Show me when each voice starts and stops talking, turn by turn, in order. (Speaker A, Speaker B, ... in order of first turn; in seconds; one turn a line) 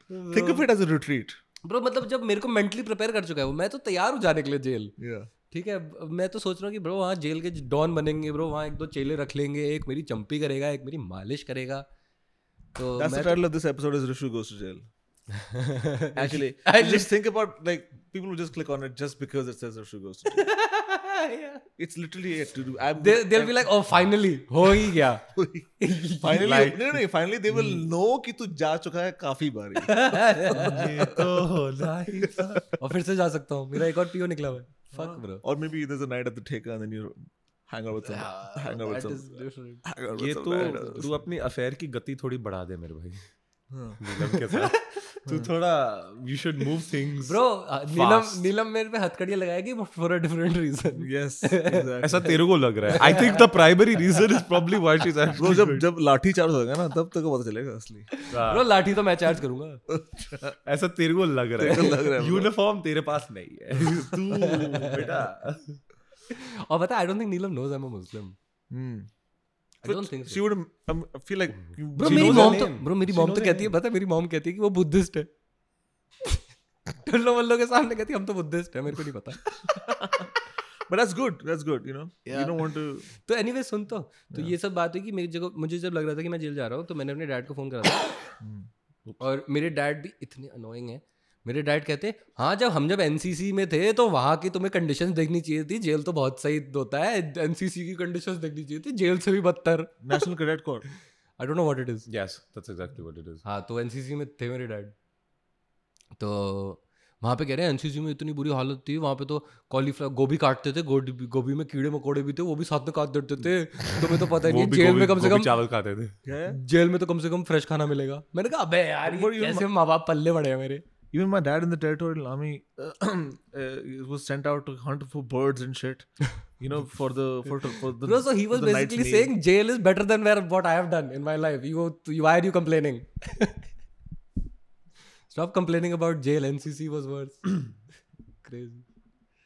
Speaker A: 0.1-0.7
Speaker B: 0.3-1.4
Speaker A: 1.6-5.0
Speaker B: 5.0-5.3
Speaker A: 5.5-11.8
Speaker A: 12.8-13.4
Speaker B: 13.0-14.8
Speaker A: 15.3-17.1
Speaker B: 16.1-20.5
Speaker A: 20.3-21.6
Speaker B: 21.8-23.7
Speaker A: 23.0-25.2
Speaker B: 25.3-31.4
Speaker A: 25.8-26.6
Speaker C: 26.4-27.0
Speaker A: 29.8-31.0
Speaker C: 30.5-32.6
Speaker A: 32.8-35.4
Speaker B: 34.9-41.1
Speaker A: 38.0-39.9
Speaker C: 40.2-43.2
Speaker B: 43.7-44.0
Speaker C: 44.0-48.5
Speaker A: 44.5-45.0
Speaker A: 47.2-52.0
Speaker B: 51.0-52.4
Speaker C: 52.0-55.9
Speaker A: 52.9-53.5
Speaker B: 55.4-58.1
Speaker A: 58.1-59.8
Speaker C: 58.3-58.7
Speaker B: 59.9-60.6
Speaker C: 60.6-65.8
Speaker B: 61.6-62.5
Speaker A: 64.4-65.0
Speaker A: 66.3-68.4
Speaker B: 68.7-69.1
Speaker A: 69.8-70.4
Speaker B: 69.8-72.7
Speaker C: 72.0-73.7
Speaker A: 72.0-75.3
Speaker A: 77.0-79.4
Speaker B: 79.6-80.3
Speaker B: 80.9-83.1
Speaker A: 82.3-88.3
Speaker B: 88.4-88.7
Speaker A: 89.2-100.2
Speaker B: 100.0-100.9
Speaker A: 101.4-102.1
Speaker C: 102.1-103.4
Speaker A: 103.4-104.9
Speaker A: 106.2-115.5
Speaker C: 114.3-116.2
Speaker B: 116.2-116.6
Speaker A: 116.5-120.8
Speaker B: 119.1-119.7
Speaker B: 121.1-129.3
Speaker A: 128.0-133.6
Speaker A: 135.3-137.8
Speaker A: 138.4-138.8